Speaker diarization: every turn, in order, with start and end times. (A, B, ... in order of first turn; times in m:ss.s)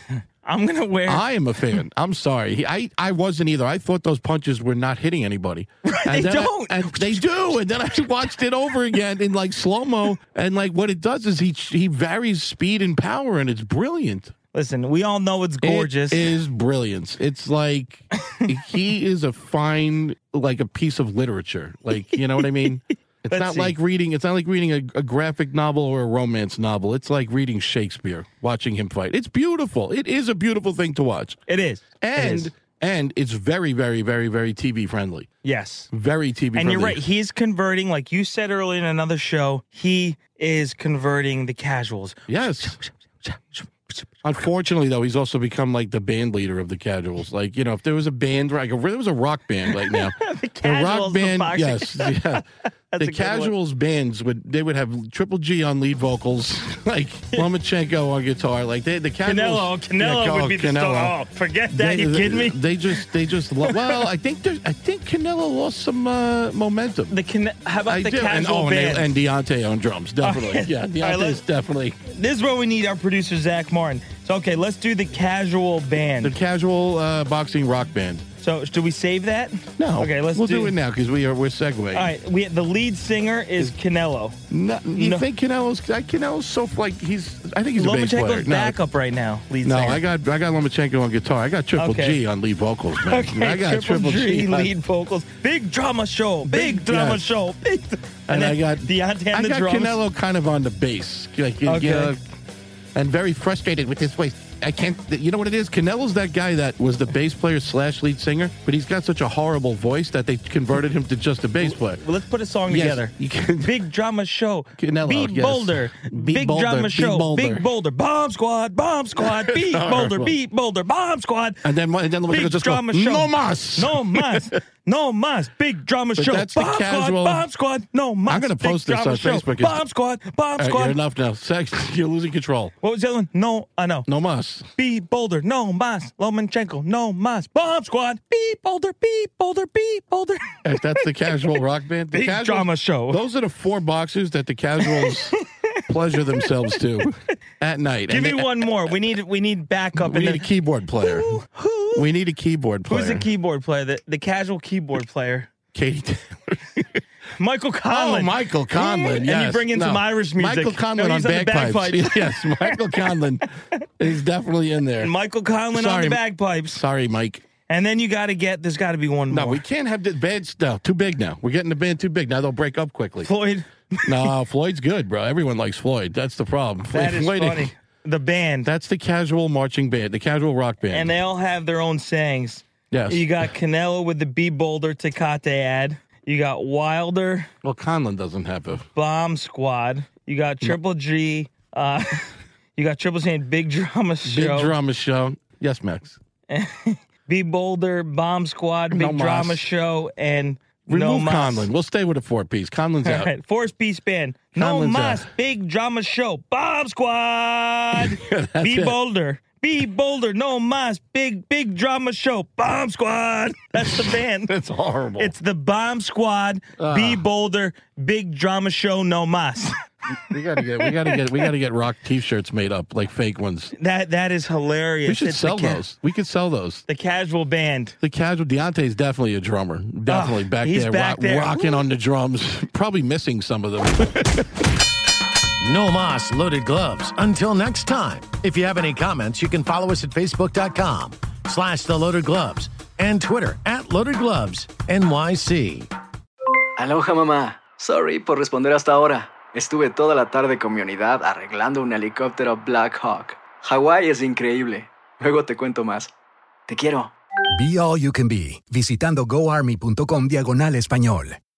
0:00.2-0:01.8 A
0:01.0-0:14.3 B
0:05.8-0:07.3 A
0:14.5-0:16.2 A
0:15.6-0:31.4 B
0:22.4-0:22.7 A
0:23.3-0:23.8 A
0:31.5-0:32.5 A
0:32.0-0:35.3 B
0:35.4-0:35.9 A
0:35.9-0:37.0 B
0:36.5-0:44.1 A
0:42.3-0:42.8 B
0:44.2-0:52.4 B
0:49.8-0:53.5 A
0:53.0-1:01.2 B
0:59.2-1:03.0 A
1:01.7-1:07.2 B
1:07.1-1:09.1 A
1:07.9-1:12.0 B
1:10.2-1:11.4 A
1:12.1-1:16.3 A
1:16.2-1:18.2 B
1:18.4-1:20.7 A
1:19.8-1:22.1 B
1:21.9-1:24.4 A
1:24.5-1:28.8 B
1:24.9-1:25.3 A
1:27.8-1:30.0 A
1:29.6-1:34.7 B
1:31.8-1:32.2 A
1:33.0-1:40.0 A
1:36.4-1:37.3 B
1:38.3-1:42.2 B
1:41.6-1:42.1 A
1:42.9-1:52.0 B
1:51.6-2:01.6 A
1:52.7-1:53.8 B
1:54.8-1:57.6 B
1:59.2-2:00.4 B
2:01.6-2:04.6 B
2:02.3-2:11.0 A
2:06.2-2:07.5 B
2:08.3-2:09.8 B
2:10.6-2:12.7 B
2:12.8-2:14.1 A
2:14.1-2:14.7 B
2:14.8-2:20.6 A
2:20.6-2:28.6 B
2:22.1-2:23.2 A
2:24.8-2:25.1 A
2:28.1-2:30.5 A
2:30.0-2:31.4 B
2:31.0-2:32.0 A
2:31.9-2:33.3 B
2:32.9-2:35.5 A
2:35.7-2:37.0 B
2:37.4-2:43.1 A
2:37.9-2:43.5 B
2:44.0-2:45.1 B
2:45.0-2:46.8 A
2:45.7-2:47.4 B
2:47.7-2:49.6 A
2:49.3-2:53.3 B
2:53.2-2:54.3 A
2:54.0-2:57.7 B
2:56.9-2:58.7 A
2:58.6-3:01.2 B
3:00.9-3:07.5 A
3:02.9-3:03.5 B
3:07.6-3:08.9 B
3:08.9-3:14.7 A
3:14.2-3:16.2 B
3:16.5-3:21.7 A
3:18.9-3:19.6 B
3:20.9-3:23.3 B
3:23.0-3:34.5 A
3:24.5-3:25.2 B
3:27.9-3:29.0 B
3:33.8-3:35.3 B
3:35.2-3:39.7 A
3:36.8-3:37.2 B
3:40.1-3:43.7 B
3:40.8-3:41.2 A
3:43.8-3:45.8 A
3:45.0-3:46.8 B
3:46.9-3:48.0 A
3:48.0-3:54.5 B
3:50.1-3:51.8 A
3:55.6-4:05.9 C
4:06.8-4:16.1 D
4:16.7-4:17.1 D
4:17.5-4:21.4 E